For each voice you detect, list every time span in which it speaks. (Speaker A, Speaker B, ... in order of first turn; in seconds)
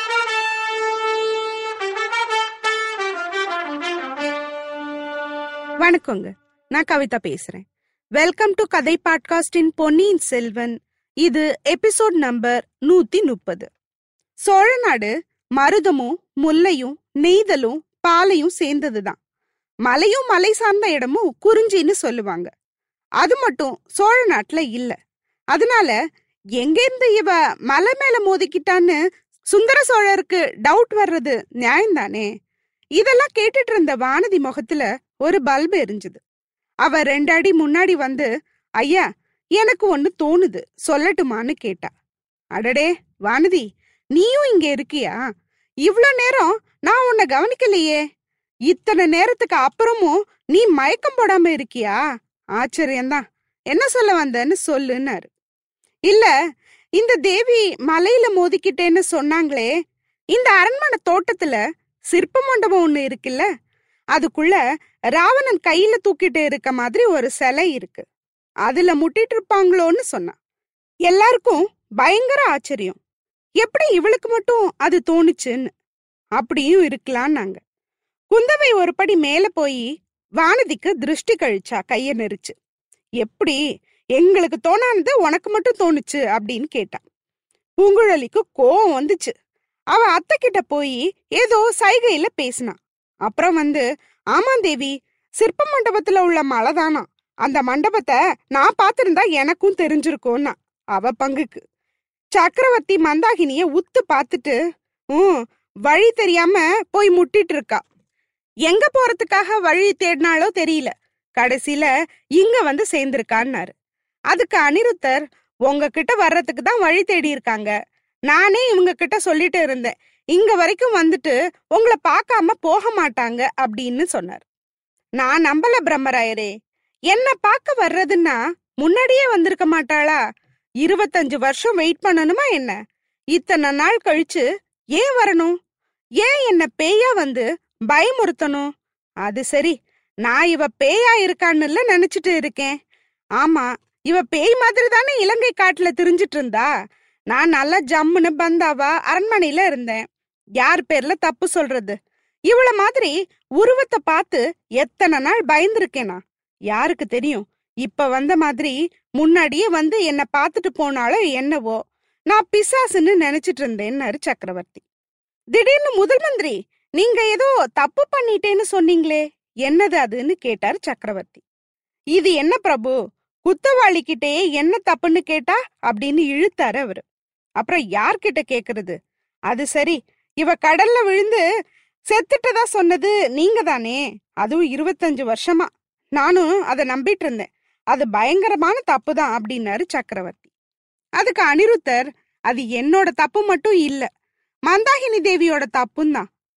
Speaker A: 5.8-7.6, 8.2-13.7, 14.5-19.2, 19.9-22.5, 23.2-24.9, 25.5-25.9, 26.6-29.0, 29.5-32.3, 33.0-36.2, 36.8-38.3, 39.6-41.9, 42.5-45.2, 45.9-48.0, 48.7-52.0, 52.6-55.3, 57.0-59.7, 60.3-61.6, 62.1-63.5, 64.2-64.6, 65.2-68.0, 68.7-70.3, 71.1-73.0, 73.6-75.7, 76.4-77.6, 78.3-79.8, 80.4-82.5, 83.2-83.6, 84.2-87.0, 87.8-89.3, 89.9-101.6, 102.3-104.6, 105.1-107.8, 108.7-113.7, 114.3-117.7, 118.3-124.4, 125.2-126.5, 127.1-130.2, 130.8-132.7, 133.3-134.4, 135.0-135.5, 136.2-138.7, 139.2-142.7, 143.4-146.7, 147.3-150.0, 150.6-151.9, 152.5-156.2, 156.7-161.8, 162.3-164.8, 165.5-171.4, 172.2-177.1, 177.6-178.9, 179.5-181.4, 182.1-190.5, 191.2-194.1, 194.7-196.2